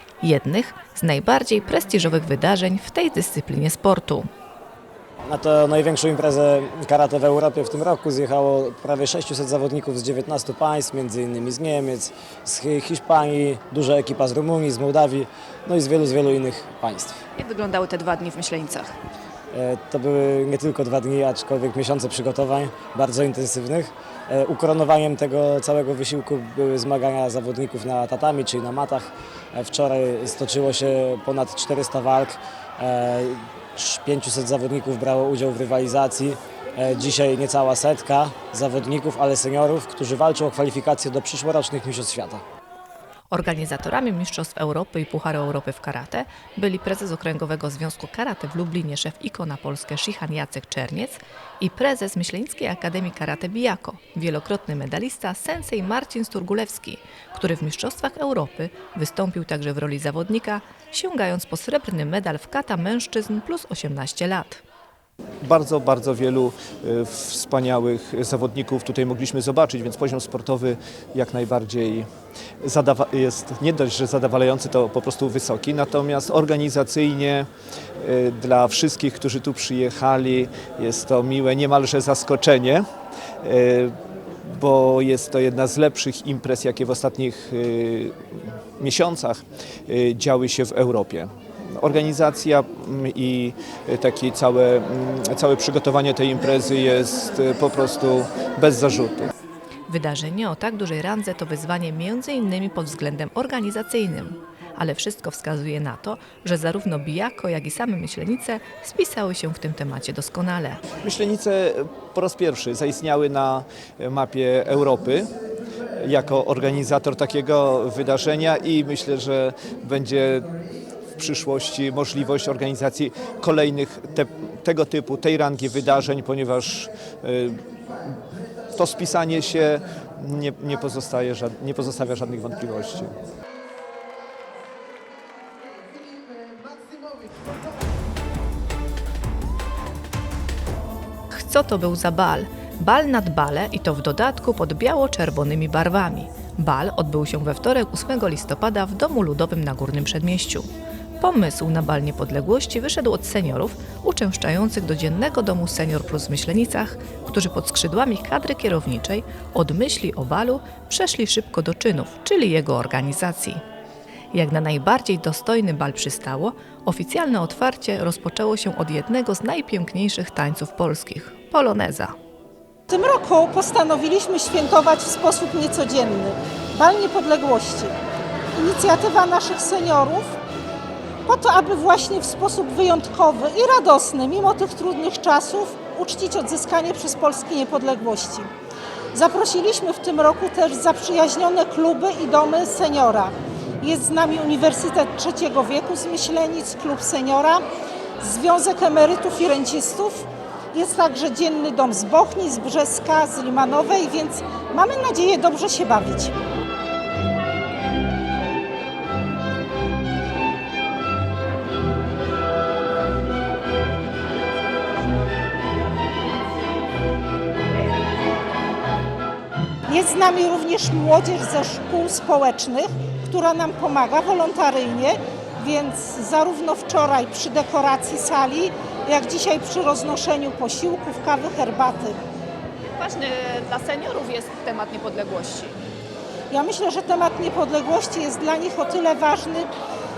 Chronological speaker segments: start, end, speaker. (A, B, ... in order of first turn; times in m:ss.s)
0:00.2-0:04.3 A
0:05.2-0:17.2 B
0:17.4-0:18.9 C
0:19.5-0:42.4 B
0:43.3-1:04.6 A
1:05.4-1:12.1 D
1:12.6-1:17.5 D
1:18.0-1:22.8 D
1:23.4-1:23.9 D
1:24.5-1:28.2 D
1:28.8-1:39.3 D
1:39.9-1:50.8 A
1:51.0-1:55.3 D
1:56.0-2:00.5 D
2:01.2-2:07.6 D
2:08.8-2:13.1 D
2:21.3-2:30.7 A
2:31.2-2:43.6 A
2:44.3-2:52.1 A
2:52.9-2:57.9 E
2:58.6-3:00.4 E
3:01.3-3:08.5 E
3:09.1-3:17.6 E
3:18.2-3:26.3 E
3:39.9-3:52.2 E
3:53.0-3:55.7 C
3:56.5-3:59.7 E